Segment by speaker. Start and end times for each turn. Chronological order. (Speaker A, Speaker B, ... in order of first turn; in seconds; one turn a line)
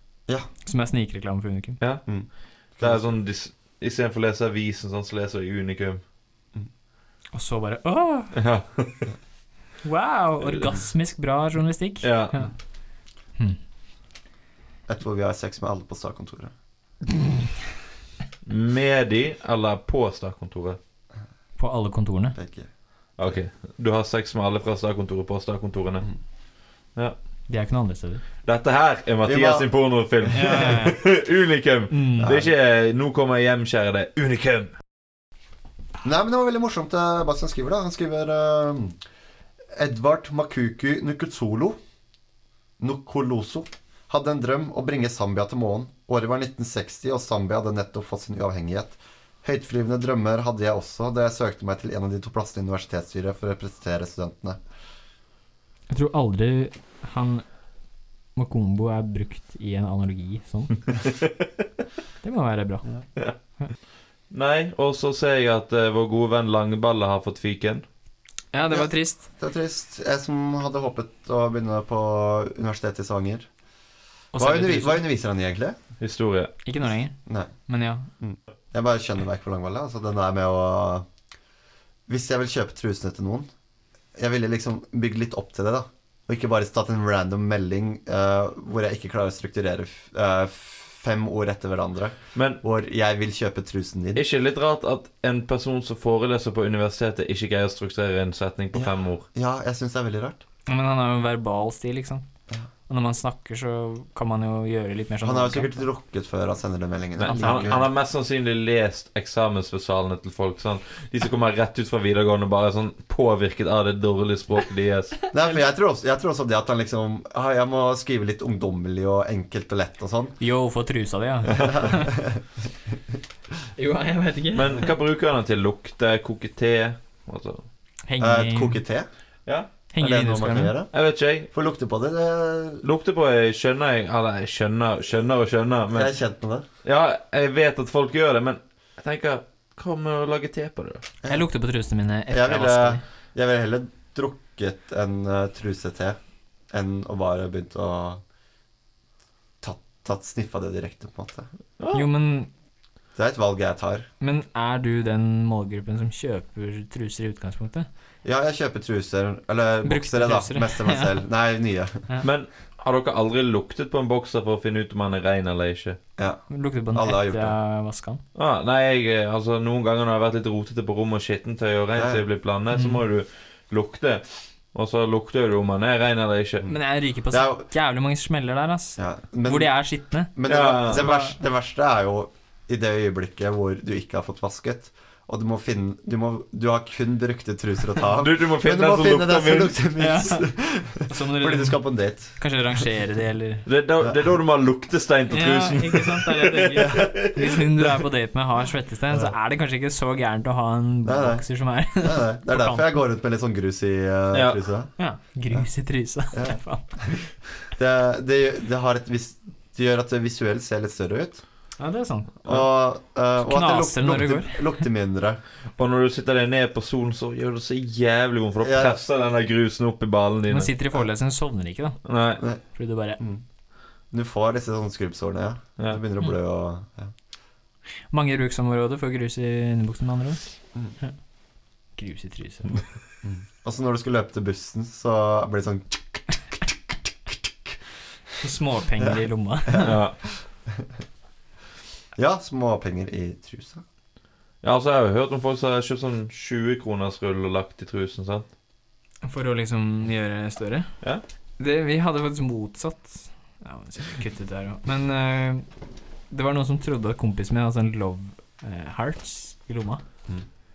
Speaker A: 0.6-1.8
Speaker B: 1.8-2.0
Speaker C: 2.0-3.1
Speaker B: 2.7-6.0
Speaker A: 7.3-8.3
Speaker B: 8.3-9.1
Speaker A: 9.8-12.5
Speaker B: 10.4-10.7
Speaker B: 12.0-12.4
Speaker C: 14.9-16.5
Speaker A: 17.1-17.4
Speaker B: 18.4-20.8
Speaker A: 21.6-22.4
Speaker C: 22.4-22.7
Speaker B: 23.2-26.1
Speaker A: 27.5-28.2
Speaker B: 28.4-34.7
Speaker C: 29.2-29.7
Speaker C: 30.3-30.5
Speaker A: 30.3-31.1
Speaker A: 31.9-32.3
Speaker C: 32.2-32.5
Speaker C: 36.0-39.0
Speaker C: 39.7-41.8
Speaker C: 42.8-54.6
Speaker A: 55.9-57.4
Speaker A: 58.3-60.8
Speaker A: 62.2-62.8
Speaker B: 64.3-67.8
Speaker A: 68.5-69.3
Speaker C: 69.4-73.5
Speaker A: 74.3-75.0
Speaker C: 74.4-75.8
Speaker B: 76.0-76.5
Speaker A: 76.6-78.1
Speaker C: 77.2-77.5
Speaker C: 78.2-81.0
Speaker C: 82.1-83.5
Speaker C: 84.1-94.2
Speaker B: 92.3-92.6
Speaker B: 94.2-99.2
Speaker C: 98.7-100.4
Speaker A: 100.7-102.2
Speaker A: 102.9-105.8
Speaker C: 105.2-107.9
Speaker B: 107.2-115.1
Speaker A: 107.2-107.8
Speaker C: 115.3-120.3
Speaker A: 120.4-122.1
Speaker C: 121.5-122.4
Speaker A: 123.8-124.9
Speaker B: 124.5-127.7
Speaker A: 128.1-128.8
Speaker C: 128.2-129.1
Speaker A: 129.9-130.8
Speaker C: 130.0-130.9
Speaker B: 130.9-131.5
Speaker C: 131.5-132.8
Speaker B: 132.8-136.1
Speaker C: 135.9-136.6
Speaker B: 136.8-141.0
Speaker A: 141.3-143.0
Speaker C: 142.3-146.2
Speaker C: 146.7-148.2
Speaker C: 149.6-151.5
Speaker B: 151.8-152.1
Speaker A: 151.9-152.5
Speaker C: 153.2-154.1
Speaker A: 154.2-157.9
Speaker C: 158.2-162.1
Speaker A: 159.8-161.1
Speaker B: 162.2-166.0
Speaker A: 166.5-168.2
Speaker C: 166.9-167.6
Speaker B: 168.3-176.7
Speaker C: 171.9-172.2
Speaker A: 176.7-180.3
Speaker C: 177.3-177.6
Speaker C: 179.0-179.7
Speaker C: 180.3-192.3
Speaker B: 180.5-181.1
Speaker A: 180.9-181.3
Speaker B: 188.2-189.8
Speaker A: 190.0-191.8
Speaker A: 192.3-193.7
Speaker B: 193.7-197.9
Speaker A: 195.3-202.9
Speaker C: 201.0-201.4
Speaker C: 202.0-204.9
Speaker B: 204.3-204.6
Speaker A: 205.0-207.3
Speaker C: 206.3-207.1
Speaker C: 207.7-211.4
Speaker A: 211.8-212.4
Speaker C: 212.4-215.4
Speaker A: 213.4-214.7
Speaker B: 215.8-220.7
Speaker C: 218.6-219.0
Speaker A: 220.5-222.0
Speaker B: 222.0-222.4
Speaker A: 222.7-223.2
Speaker C: 224.1-227.1
Speaker A: 228.1-230.4
Speaker A: 232.0-232.8
Speaker C: 233.2-236.7
Speaker C: 237.3-237.8
Speaker A: 238.4-240.0
Speaker B: 239.8-240.2
Speaker C: 242.2-243.8
Speaker B: 244.6-248.5
Speaker A: 249.2-250.9
Speaker A: 251.6-255.7
Speaker A: 256.3-260.0